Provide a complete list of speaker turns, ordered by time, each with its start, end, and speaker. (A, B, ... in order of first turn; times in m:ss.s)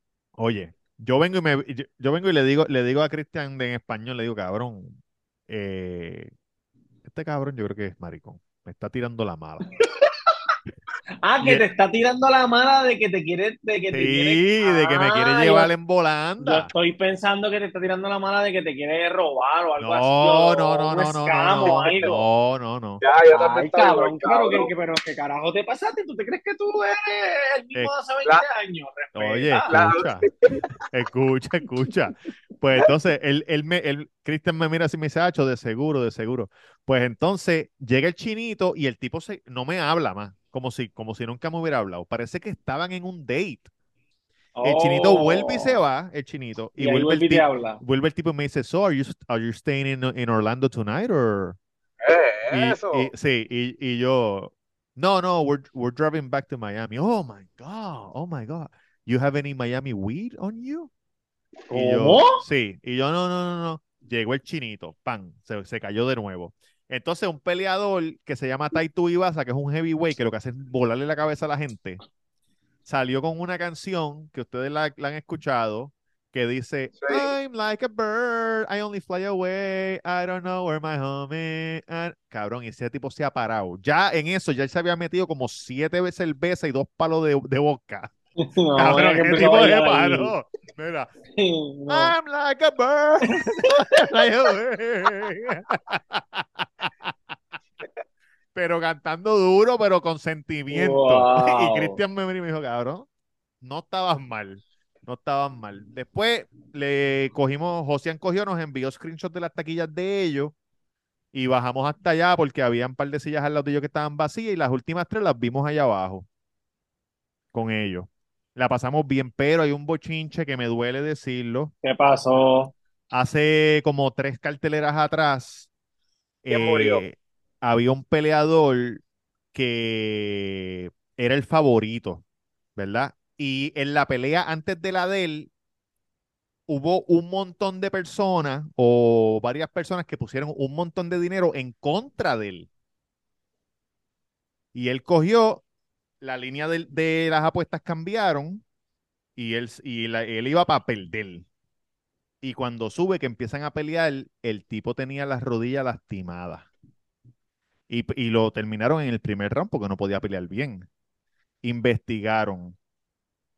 0:00.4-0:05.0 A
0:05.5-0:06.3 A
0:07.1-0:09.7 A
0:11.2-0:15.7 B
0:13.9-0:16.7 A
0:16.4-0:22.2 B
0:19.8-0:23.0 A
0:21.6-0:22.1 C
0:23.0-0:24.7 C
0:23.3-0:29.7 B
0:29.2-0:30.3 A
0:29.7-0:30.6 C
0:30.9-0:43.7 A
0:44.6-0:45.8 B
0:44.6-0:51.6 A
0:46.8-0:47.8 B
0:52.0-0:53.1 C
0:52.5-1:00.9 A
1:01.7-1:12.0 A
1:01.7-1:02.4 B
1:12.8-1:28.1 A
1:17.0-1:17.3 C
1:28.4-1:30.4 B
1:28.8-1:31.1 A
1:31.4-1:32.2 B
1:31.9-1:37.1 A
1:38.5-1:43.1 A
1:40.7-1:42.0 B
1:43.6-1:50.5 A
1:51.3-1:56.3 A
1:57.5-2:01.7 A
2:01.8-2:02.7 B
2:03.1-2:05.7 A
2:06.4-2:12.2 A
2:06.5-2:07.0 C
2:12.8-2:15.5 A
2:16.7-2:22.7 A
2:24.7-2:25.6 A
2:26.2-2:28.6 A
2:29.4-2:31.5 A
2:32.4-2:36.7 A
2:37.9-2:40.9 A
2:41.6-2:42.8 A